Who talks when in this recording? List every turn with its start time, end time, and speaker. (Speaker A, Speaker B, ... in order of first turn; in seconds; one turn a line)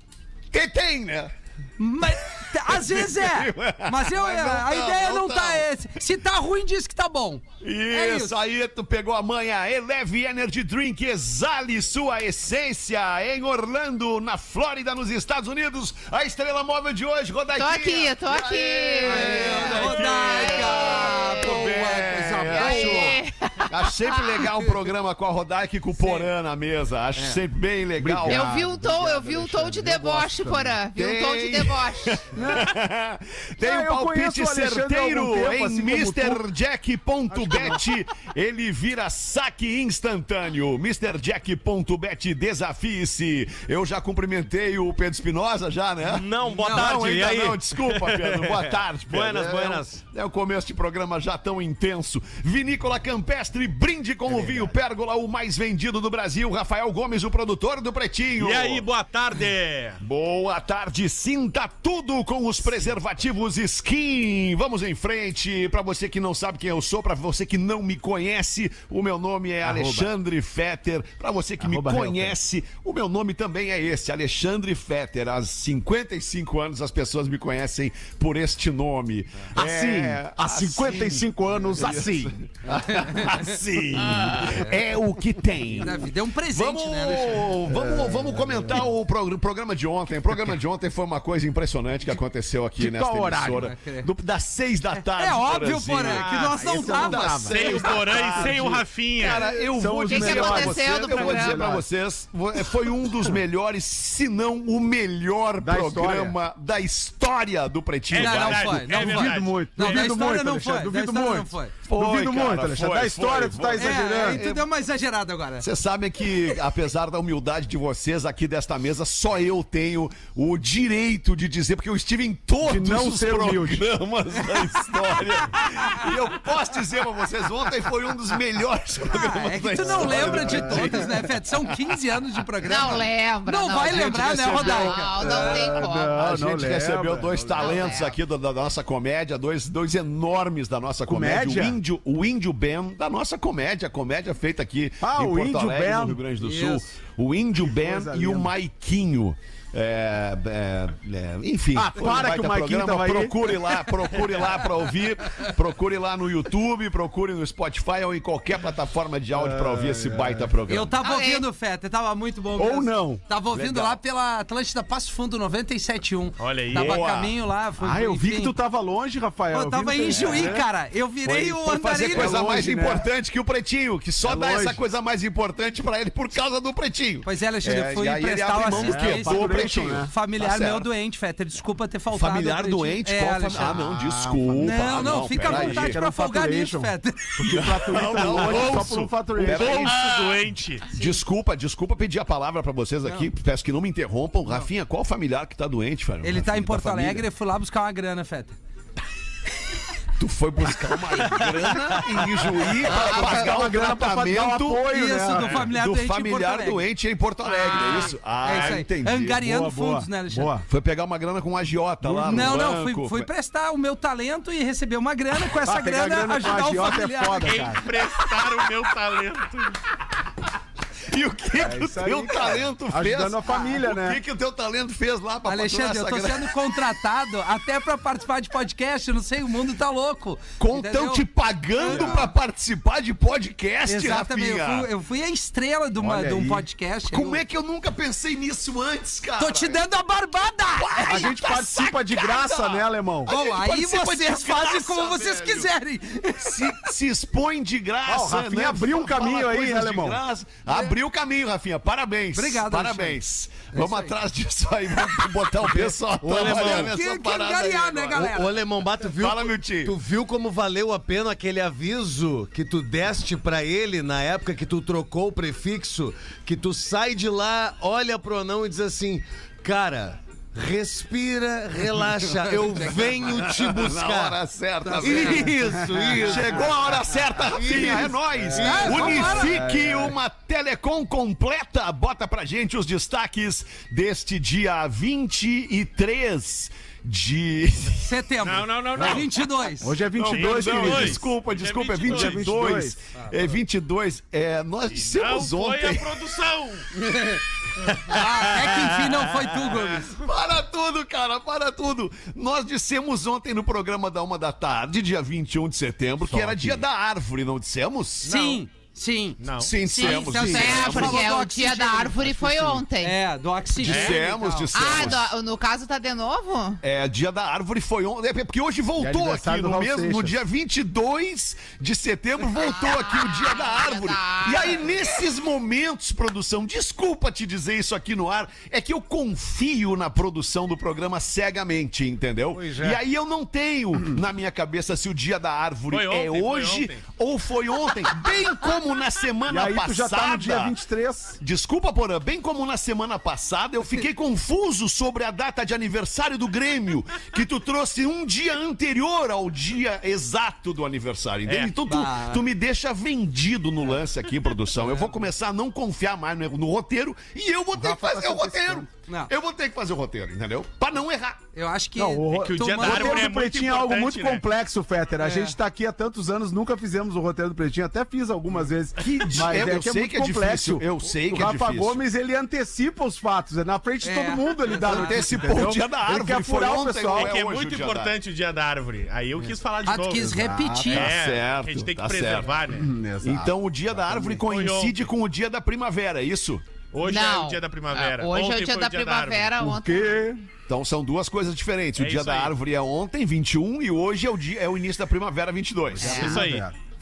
Speaker A: 0.5-1.3
Speaker B: 1.8-8.3
Speaker A: 2.7-5.7
Speaker A: 7.6-28.5
Speaker C: 17.5-21.9
Speaker B: 19.0-23.2
Speaker C: 22.5-24.5
Speaker B: 26.0-26.3
Speaker D: 28.0-30.8
Speaker C: 28.2-32.2
Speaker A: 30.9-58.8
Speaker B: 32.4-32.7
Speaker D: 33.6-36.4
Speaker D: 37.3-38.0
Speaker E: 46.0-47.6
Speaker B: 46.5-46.9
Speaker F: 48.0-48.5
Speaker E: 49.0-50.0
Speaker D: 54.3-54.7
Speaker F: 58.4-60.0
Speaker A: 60.0-108.8
Speaker D: 69.6-70.1
Speaker D: 71.6-72.4
Speaker D: 79.5-82.4
Speaker B: 82.7-83.5
Speaker B: 84.3-84.8
Speaker B: 85.8-87.6
Speaker D: 87.7-88.9
Speaker D: 92.8-93.7
Speaker B: 93.5-94.1
Speaker B: 95.0-97.6
Speaker F: 96.0-96.6
Speaker D: 96.5-97.9
Speaker F: 97.5-99.5
Speaker D: 99.7-101.9
Speaker C: 99.8-101.8
Speaker D: 105.6-106.4
Speaker F: 108.1-109.6
Speaker B: 108.1-111.7
Speaker D: 108.7-114.4
Speaker A: 111.9-114.7
Speaker B: 113.8-115.7
Speaker A: 115.6-131.4
Speaker D: 122.6-123.9
Speaker B: 129.1-135.8
Speaker D: 129.8-131.3
Speaker C: 132.7-136.2
Speaker A: 133.8-135.0
Speaker D: 134.8-138.0
Speaker A: 136.1-161.0
Speaker C: 137.5-138.2
Speaker D: 141.1-141.8
Speaker D: 145.0-146.2
Speaker B: 146.4-146.8
Speaker D: 147.6-148.5
Speaker D: 151.7-153.6
Speaker D: 159.3-160.5
Speaker B: 160.7-168.6
Speaker C: 161.0-161.5
Speaker D: 162.5-163.2
Speaker A: 163.6-164.0
Speaker F: 166.4-167.0
Speaker A: 166.7-167.3
Speaker D: 167.8-170.7
Speaker B: 169.5-172.4
Speaker A: 170.1-170.7
Speaker A: 171.2-180.9
Speaker D: 171.9-173.1
Speaker D: 174.2-174.8
Speaker B: 177.2-183.8
Speaker D: 178.8-180.1
Speaker A: 182.1-186.0
Speaker D: 183.5-190.0
Speaker B: 184.6-187.6
Speaker F: 185.2-185.9
Speaker A: 187.4-197.2
Speaker F: 187.9-190.9
Speaker B: 196.2-198.6
Speaker A: 200.2-204.9
Speaker B: 201.2-202.0
Speaker E: 201.3-201.7
Speaker D: 202.8-205.7
Speaker B: 204.9-206.8
Speaker A: 205.4-209.4
Speaker B: 207.5-210.5
Speaker D: 209.4-210.7
Speaker A: 210.7-213.3
Speaker D: 212.0-212.7
Speaker B: 212.3-217.7
Speaker D: 215.6-217.9
Speaker F: 217.4-219.8
Speaker A: 221.1-226.5
Speaker D: 221.5-224.2
Speaker B: 225.4-231.2
Speaker A: 230.6-234.9
Speaker B: 231.8-232.3
Speaker D: 231.9-232.3
Speaker B: 233.9-237.4
Speaker D: 236.0-236.7
Speaker A: 237.1-239.8
Speaker B: 239.4-241.3
Speaker A: 240.8-245.7
Speaker D: 241.1-243.4
Speaker B: 243.3-246.9
Speaker A: 246.4-258.3
Speaker D: 248.0-250.2
Speaker B: 250.7-250.9
Speaker B: 252.3-253.2
Speaker B: 253.7-254.1
Speaker B: 256.1-258.5
Speaker D: 256.2-256.9
Speaker E: 256.4-256.9
Speaker E: 258.1-274.4
Speaker A: 259.1-259.9
Speaker B: 272.4-273.3
Speaker A: 273.3-275.6
Speaker B: 274.8-275.8
Speaker E: 275.0-279.2
Speaker D: 275.8-276.6
Speaker A: 276.2-288.2
Speaker D: 278.3-280.2
Speaker B: 278.5-279.6
Speaker B: 288.0-290.0
Speaker F: 288.4-289.4
Speaker D: 289.0-289.2
Speaker D: 289.8-291.3
Speaker A: 290.2-296.2
Speaker F: 290.3-292.5
Speaker D: 292.0-293.0
Speaker F: 294.9-296.9
Speaker B: 297.0-297.4
Speaker A: 297.9-308.3
Speaker B: 298.0-300.1
Speaker F: 306.3-306.8
Speaker F: 308.2-308.6
Speaker B: 308.2-312.4
Speaker F: 309.4-309.8
Speaker A: 309.6-311.3
Speaker C: 310.0-313.2
Speaker D: 312.4-312.8
Speaker B: 313.0-314.7
Speaker A: 313.8-315.3
Speaker F: 313.9-314.2
Speaker C: 314.7-316.8
Speaker A: 316.8-340.7
Speaker D: 319.0-320.4
Speaker C: 322.6-325.1
Speaker F: 335.9-337.0
Speaker D: 339.4-341.4
Speaker A: 341.4-361.4
Speaker B: 351.4-352.4
Speaker B: 354.8-355.2
Speaker D: 357.8-358.8
Speaker B: 359.1-359.3
Speaker B: 361.5-363.3
Speaker D: 361.9-377.4
Speaker F: 362.3-364.4
Speaker B: 365.2-365.6
Speaker A: 369.0-372.0
Speaker B: 374.0-375.6
Speaker A: 374.8-378.1
Speaker F: 377.1-380.3
Speaker B: 379.8-381.1
Speaker D: 380.2-381.0
Speaker F: 380.9-382.9
Speaker A: 380.9-382.6
Speaker D: 382.7-384.4
Speaker A: 383.2-386.6
Speaker F: 384.4-385.1
Speaker F: 386.9-389.7
Speaker C: 387.0-390.2
Speaker D: 389.6-390.4
Speaker A: 390.7-396.3
Speaker F: 392.0-392.5
Speaker D: 396.0-396.8
Speaker C: 396.0-396.4
Speaker F: 396.1-396.7